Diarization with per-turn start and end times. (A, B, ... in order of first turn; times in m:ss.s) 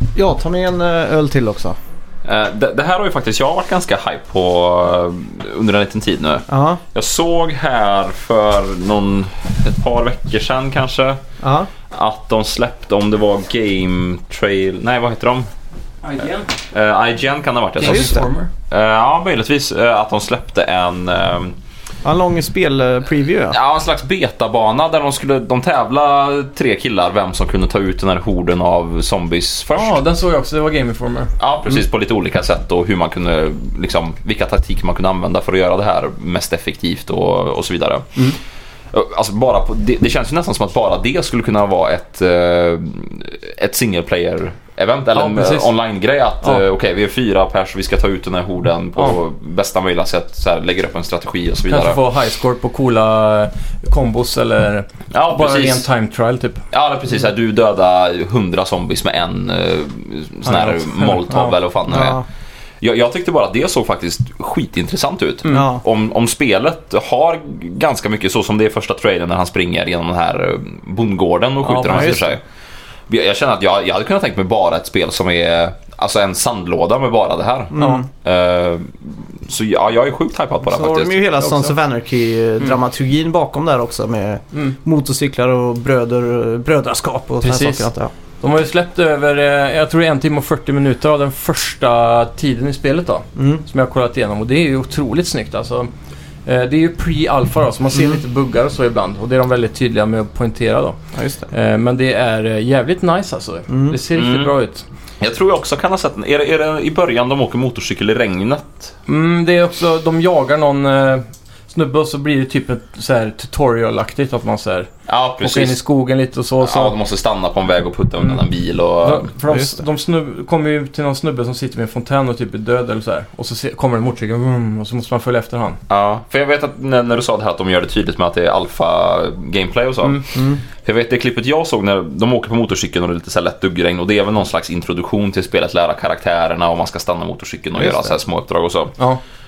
0:00.2-0:01.8 A
0:02.2-0:11.2 B
0:06.5-0:06.8 A
0:11.4-0:11.7 A
0:11.9-0:15.5 B
0:16.0-0:16.5 C
0:16.7-0:21.6 B
0:17.8-0:18.5 C
0:17.8-0:18.3 A
0:22.0-0:23.6 A
0:23.5-0:30.0 B
0:29.8-0:31.3 C
0:31.4-0:38.2 B
0:38.9-0:52.0 B
0:45.1-0:45.7 C
0:51.7-0:56.6 C
0:55.1-0:55.9 B
0:56.7-1:02.2 B
1:00.4-1:01.6 C
1:01.9-1:02.2 A
1:02.8-1:12.4 B
1:05.4-1:05.7 C
1:05.5-1:05.8 A
1:11.6-1:12.3 C
1:13.1-1:21.2 B
1:17.7-1:18.0 A
1:17.8-1:18.0 C
1:20.7-1:28.1 A
1:21.4-1:21.7 C
1:27.4-1:27.9 C
1:28.4-1:35.9 C
1:33.4-1:33.6 A
1:36.5-1:41.0 C
1:41.2-1:41.5 A
1:41.5-1:44.8 C
1:43.7-1:44.0 A
1:44.1-1:44.5 B
1:45.2-1:48.9 B
1:49.1-1:54.9 C
1:55.1-1:55.8 B
1:55.4-1:57.0 C
1:56.6-1:59.3 B
1:59.0-2:05.8 C
1:59.5-1:59.8 A
2:05.9-2:19.0 B
2:10.3-2:10.6 A
2:17.8-2:18.1 A